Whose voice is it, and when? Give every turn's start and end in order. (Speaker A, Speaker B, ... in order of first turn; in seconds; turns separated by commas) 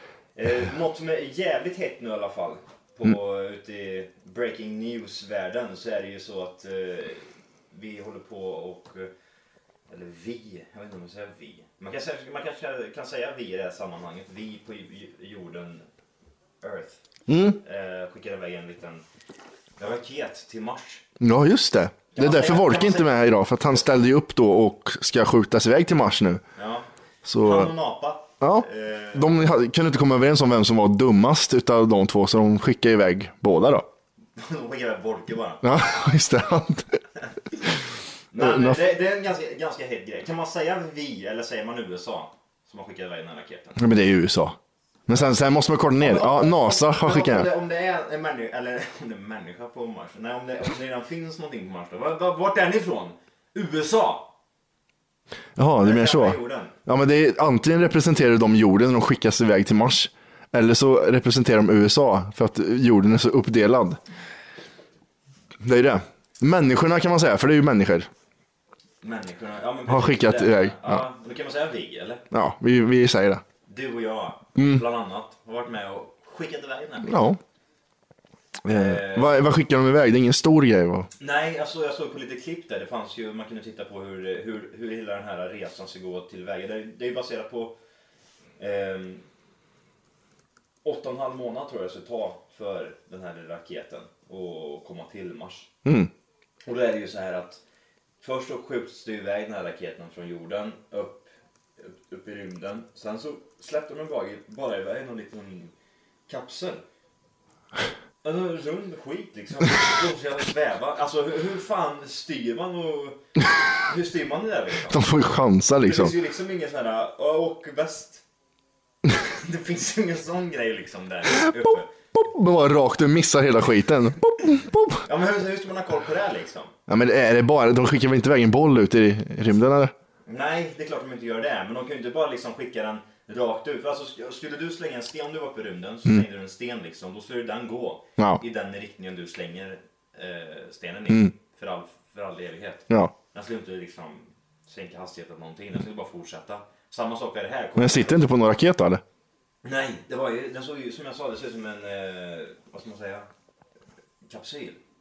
Speaker A: 0.3-9.1, Speaker A: 9.9-15.9, Speaker A: 16.6-17.0, Speaker B: 17.3-17.6, Speaker A: 17.5-19.0, Speaker A: 19.8-21.0, Speaker B: 21.2-26.4, Speaker A: 22.1-23.8, Speaker A: 26.6-26.9, Speaker B: 27.2-27.7, Speaker A: 27.4-29.4, Speaker B: 28.4-33.9, Speaker A: 34.4-35.7, Speaker B: 35.6-37.0, Speaker A: 38.3-43.9, Speaker B: 38.4-38.8, Speaker B: 43.8-47.5, Speaker A: 46.0-54.3, Speaker B: 55.6-64.0, Speaker A: 55.8-56.8, Speaker B: 65.6-68.1, Speaker A: 69.0-72.2, Speaker B: 69.9-71.0, Speaker B: 72.3-73.4, Speaker A: 73.7-77.3, Speaker B: 74.6-74.8, Speaker B: 77.0-77.4, Speaker B: 78.7-81.1, Speaker A: 78.7-79.5, Speaker A: 81.2-87.8, Speaker A: 88.6-89.2, Speaker A: 90.8-95.7, Speaker B: 95.8-96.1, Speaker A: 96.7-97.6, Speaker A: 98.2-105.7, Speaker A: 106.3-106.8, Speaker A: 108.2-113.2, Speaker A: 113.8-115.1, Speaker B: 114.9-116.1, Speaker A: 115.8-118.2, Speaker A: 119.1-121.9, Speaker B: 122.1-125.0, Speaker A: 125.0-126.7, Speaker B: 126.9-129.9, Speaker A: 130.3-148.3, Speaker B: 147.8-149.0, Speaker A: 149.6-153.3, Speaker A: 154.2-154.8